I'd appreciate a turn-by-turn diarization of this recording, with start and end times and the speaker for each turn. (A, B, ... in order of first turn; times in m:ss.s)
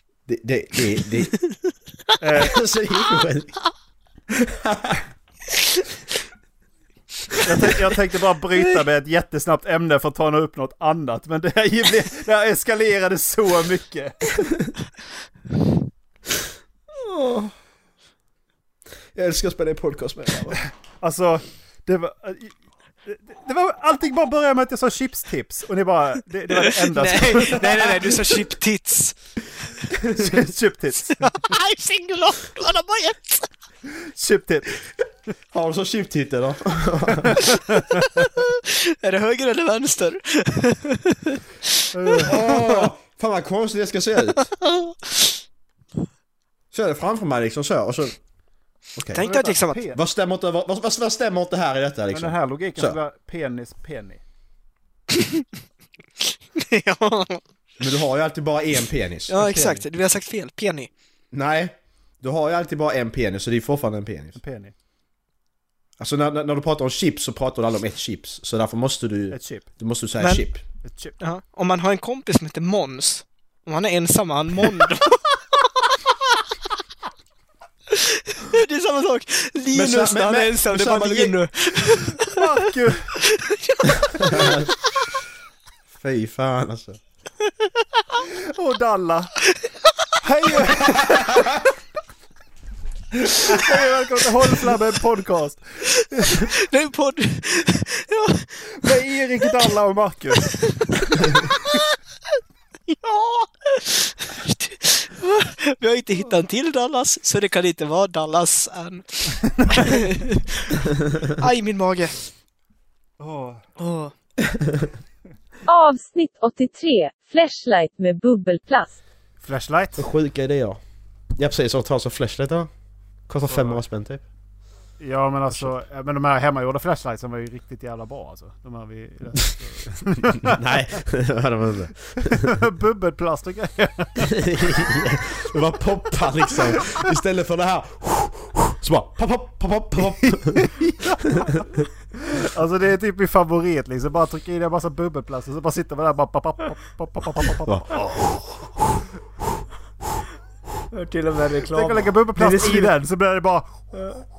0:00.3-0:01.3 A
0:02.2-0:02.6 B
0:02.3-0:03.6 A
0:04.3-0:05.0 A
0:07.4-0:14.3 B
0:17.0-0:17.5 A
0:19.1-0:20.6 A
0:20.6-0:22.5 B
0:23.0-0:27.8 B
0:26.5-0:29.2 C
0:30.0-0:30.3 A
0:30.1-0:31.4 B
0:31.2-0:33.5 C
0:34.0-0:34.7 B
0:35.5-0:37.4 A
0:38.2-0:41.4 C
0:41.9-0:42.3 C
0:41.9-0:42.5 B
0:42.2-0:44.5 A
0:44.6-0:45.2 C
0:46.7-0:48.2 A
0:49.0-0:49.3 A
0:49.1-0:49.9 C
0:49.2-0:50.0 B
0:49.9-0:53.0 A
0:52.1-0:54.2 B
0:55.2-0:55.4 C
0:56.5-0:57.4 C
0:57.8-0:59.3 A
0:59.3-1:00.9 C
0:59.4-0:59.8 B
1:01.3-1:04.4 A
1:04.4-1:04.7 B
1:06.0-1:10.6 A
1:09.3-1:09.7 B
1:10.2-1:10.4 C
1:10.8-1:11.2 B
1:11.2-1:15.4 C
1:17.9-1:22.5 C
1:19.7-1:21.4 A
1:22.2-1:23.1 B
1:23.2-1:24.6 C
1:24.2-1:24.7 A
1:25.9-1:27.0 A
1:28.5-1:29.3 B
1:30.2-1:31.6 B
1:33.4-1:36.4 B
1:36.2-1:38.9 C
1:38.8-1:40.6 B
1:40.4-1:41.8 C
1:42.9-1:52.3 C
1:53.2-1:53.6 B
1:53.8-1:54.1 C
1:55.7-1:59.0 D
1:59.4-2:00.0 B
2:00.0-2:00.8 A
2:01.4-2:02.7 A
2:03.3-2:04.2 A
2:03.4-2:03.8 B
2:05.0-2:10.7 B
2:10.4-2:12.6 A
2:12.2-2:14.4 B
2:14.3-2:20.7 A
2:20.2-2:21.7 B
2:22.2-2:28.3 B
2:27.6-2:28.4 A
2:30.9-2:32.9 E
2:31.7-2:33.9 B